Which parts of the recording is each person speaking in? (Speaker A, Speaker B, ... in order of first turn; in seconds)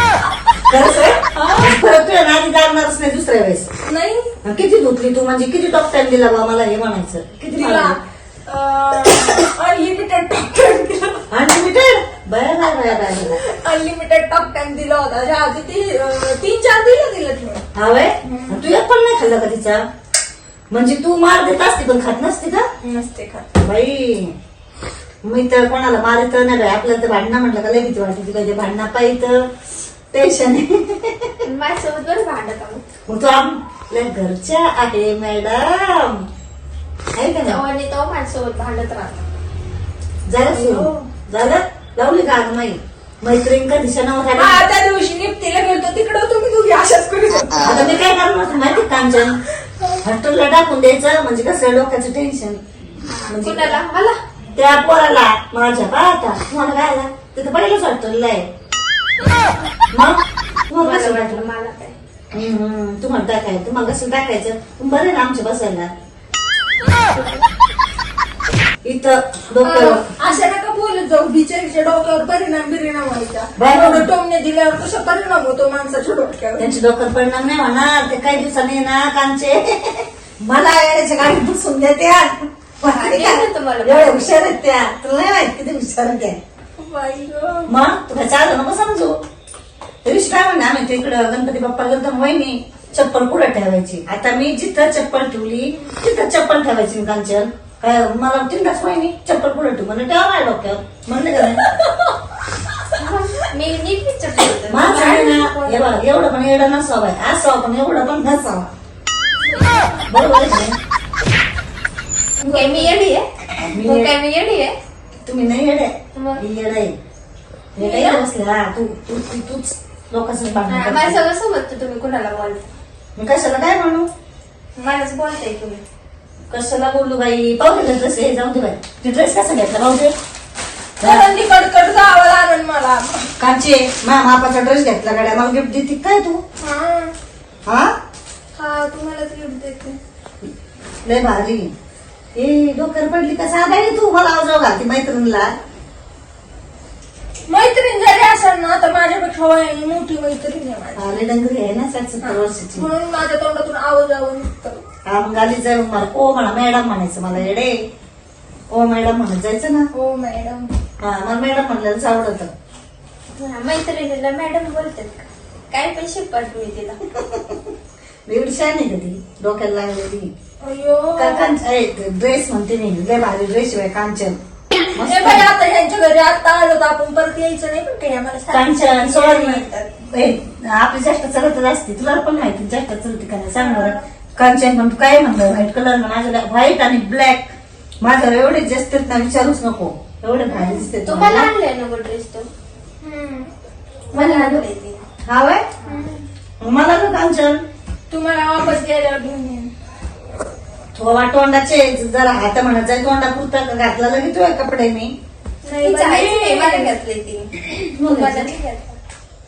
Speaker A: 0.6-3.7, 4.4-8.0, 11.3-13.4, 17.8-19.8, 20.7-22.7, 23.6-24.3, 25.2-29.5, 30.1-31.4, 33.1-36.3, 37.2-37.6, 40.3-44.6, 47.6-49.4, 50.0-52.6, 53.3-53.8, 54.5-58.5, 59.9-61.5, 62.3-65.9, 68.8-70.1, 73.6-74.1, 76.6-86.4, 87.7-89.2, 90.0-101.6, 104.7-108.7, 110.1-110.8, 113.7-114.1, 115.3-117.0, 117.8-121.2, 123.2-124.1, 126.5-130.1, 131.0-131.3, 133.4-136.4, 141.1-141.7, 142.4-145.5, 151.0-152.9, 155.1-157.8, 158.7-159.9, 161.0-162.5, 168.3-170.3, 171.2-174.4, 174.9-175.5, 178.5-191.5, 194.1-194.6, 195.3-195.7, 196.6-197.6, 200.9-205.1, 207.9-208.5
Speaker B: 1.3-1.9, 3.9-4.4, 7.5-11.3, 13.3-17.7, 18.2-18.6, 22.8-23.5, 40.5-41.1, 44.4-48.0, 69.6-76.8, 86.8-87.7, 112.4-113.0, 131.0-133.3, 136.6-137.1, 138.6-140.0, 147.5-151.2, 152.2-154.8, 159.9-160.7, 170.6-171.5, 175.0-179.9, 183.6-184.0, 193.0-193.5, 195.8-196.2, 198.1-199.7, 205.6-206.9
Speaker C: 31.4-32.8, 37.4-39.2, 53.1-54.2, 60.8-62.0, 67.2-67.4, 82.8-84.4, 103.0-106.0, 112.4-114.7, 116.1-116.4, 117.8-118.2, 120.7-122.7, 124.8-125.8, 163.4-167.0, 190.6-192.5, 194.1-195.0, 195.8-196.1, 205.7-209.0